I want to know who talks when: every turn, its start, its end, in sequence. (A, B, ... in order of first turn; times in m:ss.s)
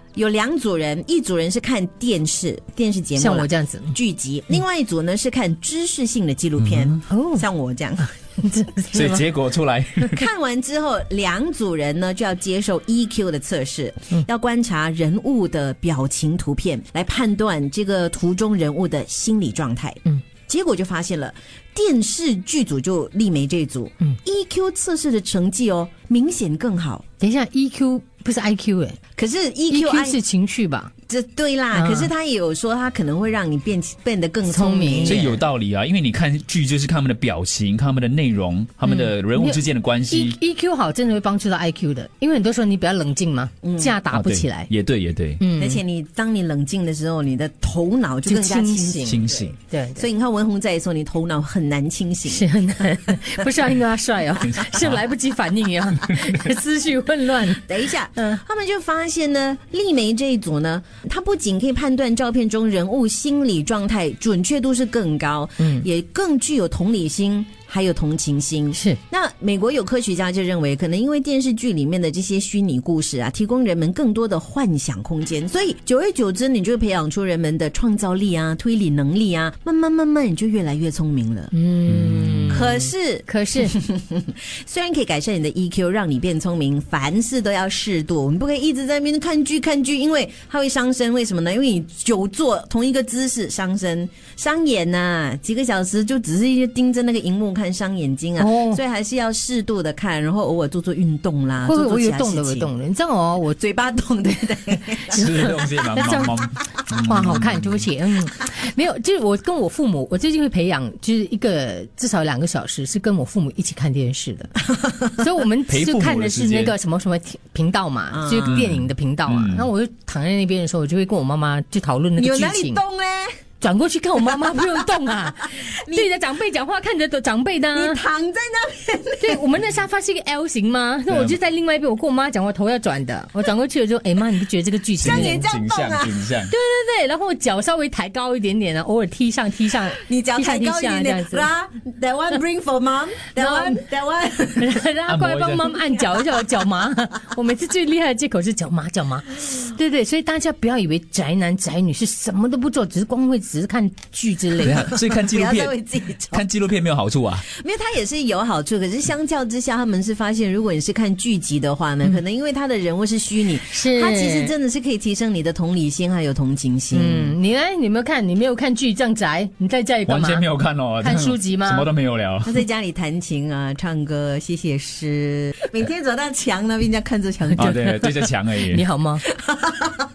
0:00.2-0:08.1 A
0:03.2-0:04.0 B
0:07.1-0:07.4 B
0:08.4-0:09.3 B
0:08.9-0:10.2 C
0:10.1-0:27.0 A
0:27.2-0:29.0 B
0:29.2-0:30.2 A
0:29.7-0:30.9 B
0:31.1-0:35.4 A
0:31.7-0:32.1 B
0:34.4-0:35.4 B
0:35.0-0:40.4 C
0:38.9-0:44.7 B
0:43.6-0:44.0 A
0:44.1-0:45.4 C
0:45.4-0:45.8 B
0:45.6-0:53.2 A
0:48.3-0:50.1 B
0:49.0-0:49.5 C
0:52.3-0:58.4 B
0:54.4-0:55.0 C
0:57.5-1:21.5 A
1:05.6-1:05.9 B
1:21.5-1:23.8 B
1:21.9-1:22.6 C
1:22.5-1:42.7 A
1:38.4-1:38.8 B
1:41.6-1:43.6 B
1:43.5-1:45.6 A
1:45.1-1:47.9 C
1:45.1-1:54.6 B
1:54.7-1:55.2 A
1:55.2-2:02.8 B
1:55.7-1:56.7 C
1:58.1-1:58.6 A
1:58.5-1:59.7 C
2:02.2-2:03.3 A
2:03.6-2:08.0 B
2:05.4-2:06.1 A
2:07.7-2:09.4 A
2:09.2-2:15.5 B
2:11.1-2:11.4 C
2:15.0-2:16.5 C
2:15.0-2:16.2 A
2:16.5-2:21.5 B
2:20.0-2:24.8 A
2:23.4-2:23.8 B
2:24.6-2:34.9 B
2:25.1-2:25.8 C
2:34.6-2:35.7 C
2:34.8-2:36.4 A
2:36.3-2:37.4 C
2:37.5-2:47.4 A
2:43.7-2:44.5 B
2:46.9-2:50.5 B
2:50.1-2:52.6 C
2:51.0-2:51.9 B
2:52.4-2:57.9 A
2:57.5-2:59.2 B
2:57.6-2:58.8 C
2:59.4-3:00.0 A